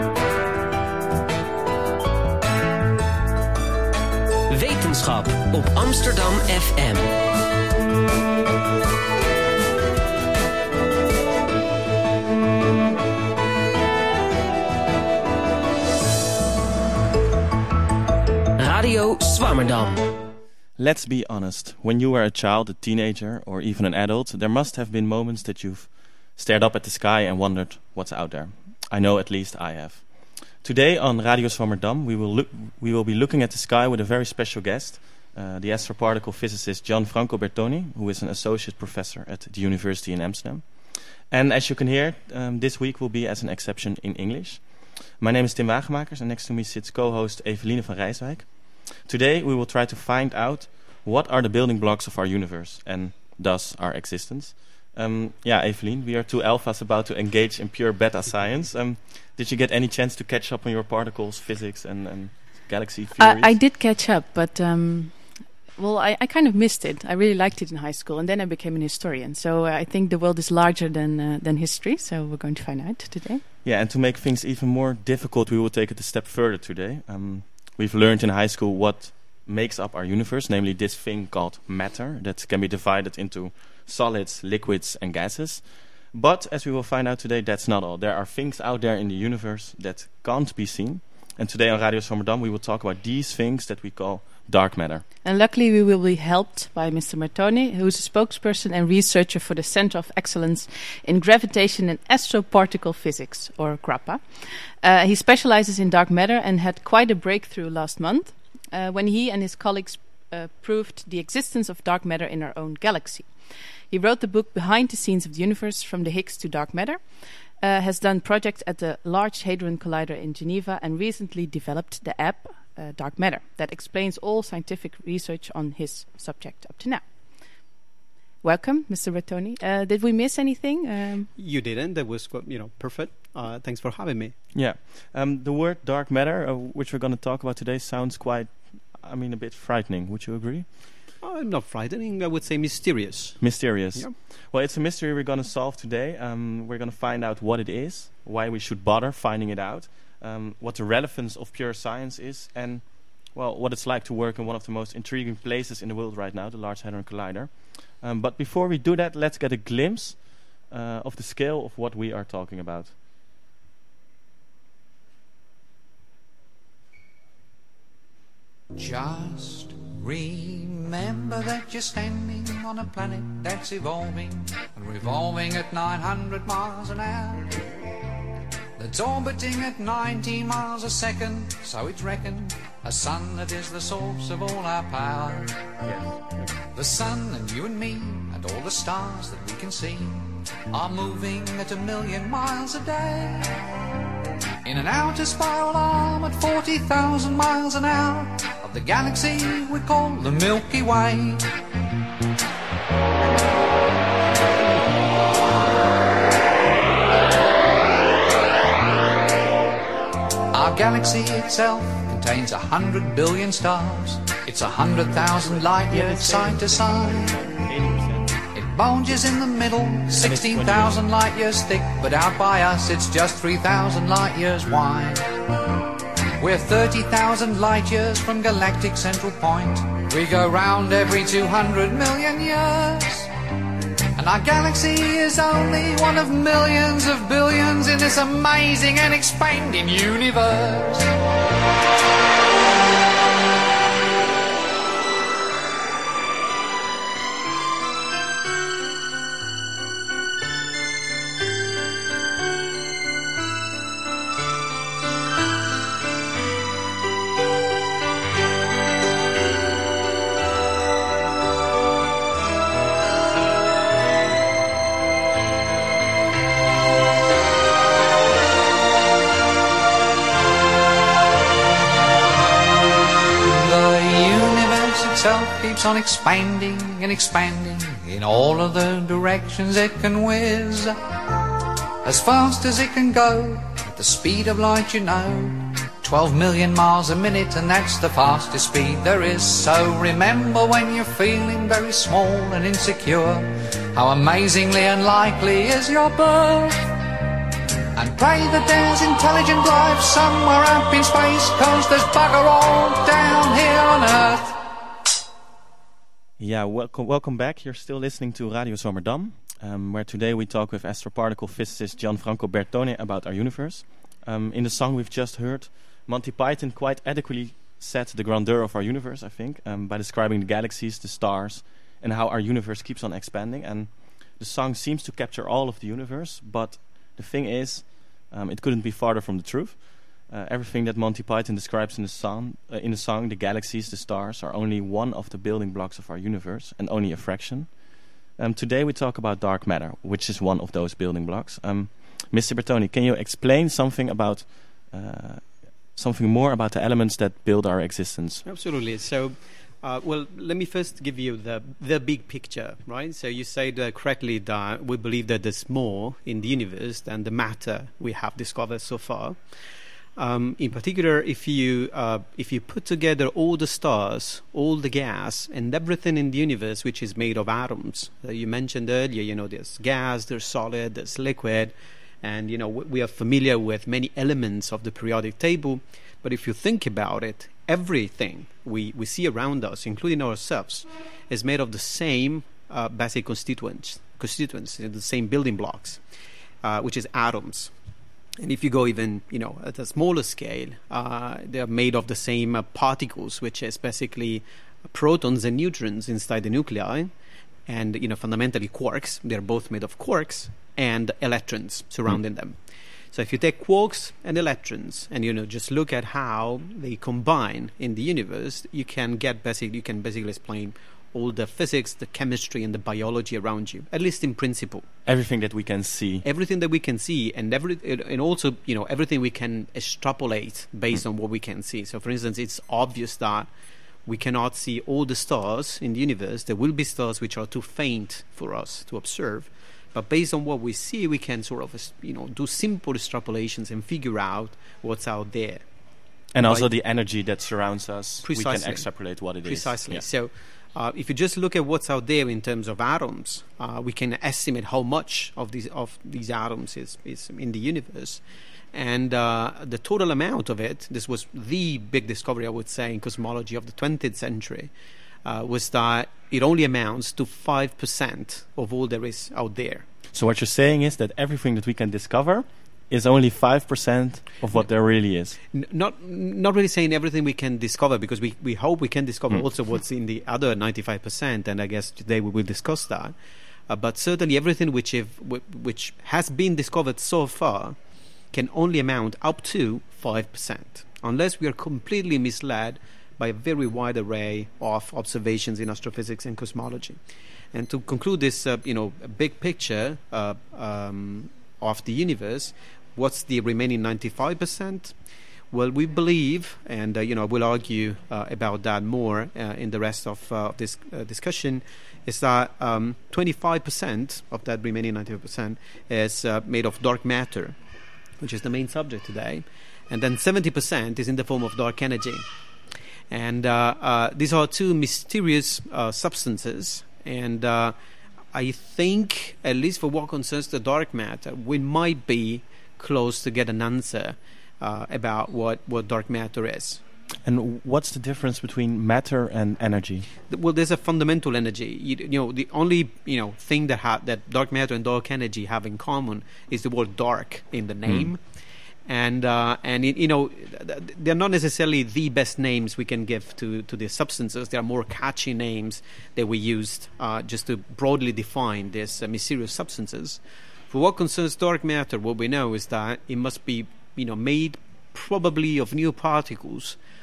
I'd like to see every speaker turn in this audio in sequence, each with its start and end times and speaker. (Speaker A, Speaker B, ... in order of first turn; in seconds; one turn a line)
Speaker A: 4.5-7.2
Speaker A: 18.6-20.0
Speaker B: 20.8-63.6
Speaker C: 63.2-73.4
Speaker B: 73.6-95.0
Speaker C: 95.2-127.0
Speaker C: 128.4-131.3
Speaker D: 131.4-134.4
Speaker B: 134.5-140.7
Speaker D: 141.2-144.1
Speaker B: 143.4-162.9
Speaker E: 168.8-177.6
Speaker E: 178.8-185.7
Speaker E: 186.7-193.6
Speaker E: 194.6-201.5
Speaker E: 210.5-217.4
Speaker B: 215.6-218.4
Speaker E: 218.5-225.4
Speaker B: 220.2-221.0
Speaker E: 226.4-233.3
Speaker E: 234.2-241.2
Speaker E: 273.4-281.0
Speaker E: 282.0-296.9
Speaker E: 297.9-304.6
Speaker B: 306.4-348.4
Speaker D: 348.4-359.4
Speaker D: 360.2-386.0
Speaker D: 386.6-387.7
Speaker D: 388.4-397.1
Speaker D: 397.7-402.6
Speaker D: 403.1-414.9
Speaker B: 415.1-416.2
Speaker D: 416.2-423.5
Speaker D: 424.1-435.6
Speaker B: 436.3-440.0
Speaker D: 436.4-436.7
Speaker D: 438.2-448.2
Speaker D: 448.7-454.7
Speaker D: 455.2-459.9
Speaker B: 460.1-465.4
Speaker D: 465.5-473.1
Speaker D: 473.7-477.8
Speaker D: 478.3-487.0
Speaker D: 487.5-494.9
Speaker D: 495.5-507.6
Speaker D: 508.2-512.3
Speaker D: 513.1-517.8
Speaker D: 518.3-526.8
Speaker B: 527.2-530.1
Speaker D: 530.3-538.2
Speaker D: 538.9-556.8